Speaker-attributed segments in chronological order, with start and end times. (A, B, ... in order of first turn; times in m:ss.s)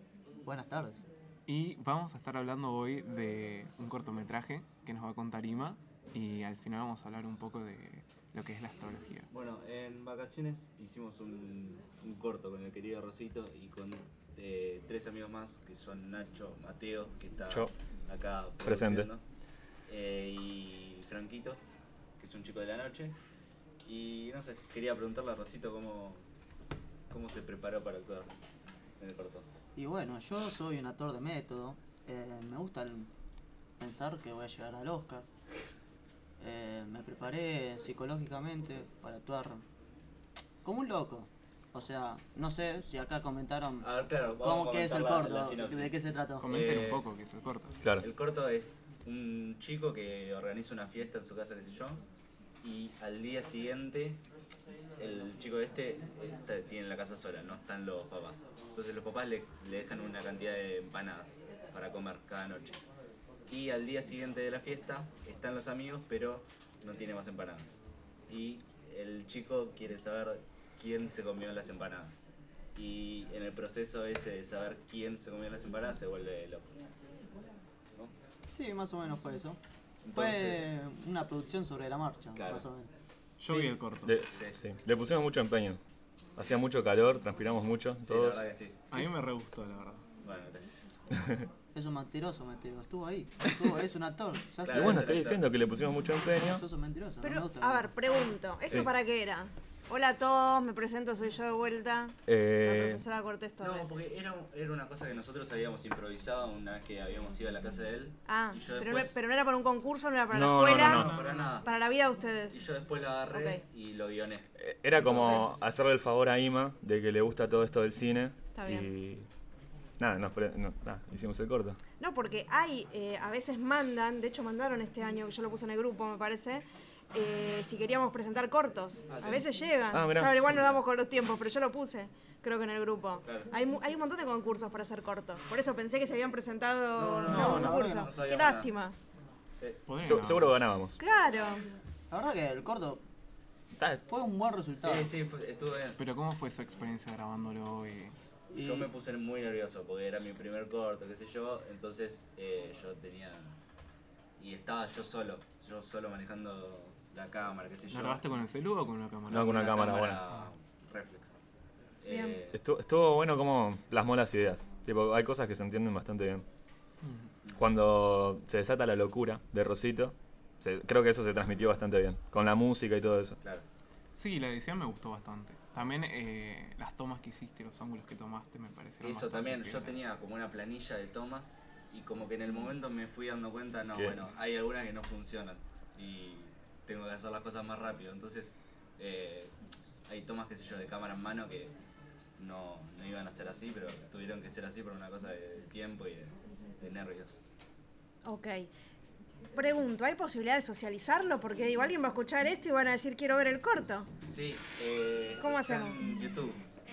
0:00.4-0:01.0 A
0:01.5-0:09.3 B
0:09.3-0:19.2 C
0:18.6-0:19.1 D
0:19.9-0:21.6 C
0:22.2-0:23.1 C
0:23.8-0:26.2 C
0:27.1-0:28.3 C
0:29.0-0:29.5 C
0:29.8-0:33.1 A
0:33.8-0:35.2 A
0:36.4-0:39.6 A
0:40.6-0:43.9 A
0:43.8-0:47.0 C
0:44.4-0:46.6 A
0:46.4-0:47.7 B
0:48.0-0:52.0 C
0:52.6-0:54.2 C
0:55.0-1:02.8 C
1:03.5-1:12.2 C
1:12.7-1:16.7 C
1:18.5-1:19.6 A
1:20.0-1:20.7 C
1:20.1-1:22.9 A
1:22.4-1:22.6 C
1:23.4-1:24.1 B
1:24.0-1:25.8 D
1:24.3-1:24.6 C
1:26.4-1:28.5 D
1:28.0-1:29.0 C
1:28.9-1:30.0 B
1:30.2-1:30.9 C
1:31.1-1:31.4 D
1:31.7-1:35.0 A
1:34.6-1:35.5 C
1:34.7-1:36.6 D
1:36.4-1:37.9 A
1:37.2-1:43.9 E
1:42.3-1:43.0 D
1:43.6-1:49.2 C
1:48.3-1:51.1 E
1:50.3-1:51.1 D
1:50.7-1:51.7 C
1:50.9-1:51.6 B
1:51.6-1:52.6 E
1:52.5-1:54.5 C
1:53.3-1:53.6 E
1:54.6-1:59.3 D
1:55.0-1:55.5 C
1:58.5-1:58.9 E
2:00.0-2:01.8 D
2:02.0-2:19.0 E
2:09.1-2:09.5 C
2:09.9-2:10.5 D
2:10.5-2:10.7 C
2:13.2-2:13.5 C
2:17.0-2:18.7 C
2:17.2-2:18.1 A
2:19.9-2:20.6 B
2:20.0-2:21.0 D
2:21.0-2:21.6 E
2:22.1-2:23.0 A
2:23.8-2:24.0 D
2:24.1-2:25.1 A
2:24.8-2:26.0 C
2:26.0-2:28.1 B
2:28.5-2:33.6 C
2:28.5-2:28.9 A
2:34.4-2:38.2 C
2:37.9-2:39.7 B
2:39.3-2:41.4 C
2:39.3-2:40.2 D
2:42.0-2:42.6 C
2:42.1-2:42.4 E
2:42.5-2:46.4 D
2:47.0-2:47.3 B
2:47.6-2:53.4 D
2:54.1-3:00.0 B
2:59.0-3:09.5 C
3:10.1-3:11.7 C
3:12.4-3:17.4 C
3:18.2-3:18.7 E
3:19.5-3:24.1 E
3:24.2-3:26.6 C
3:25.4-3:26.0 E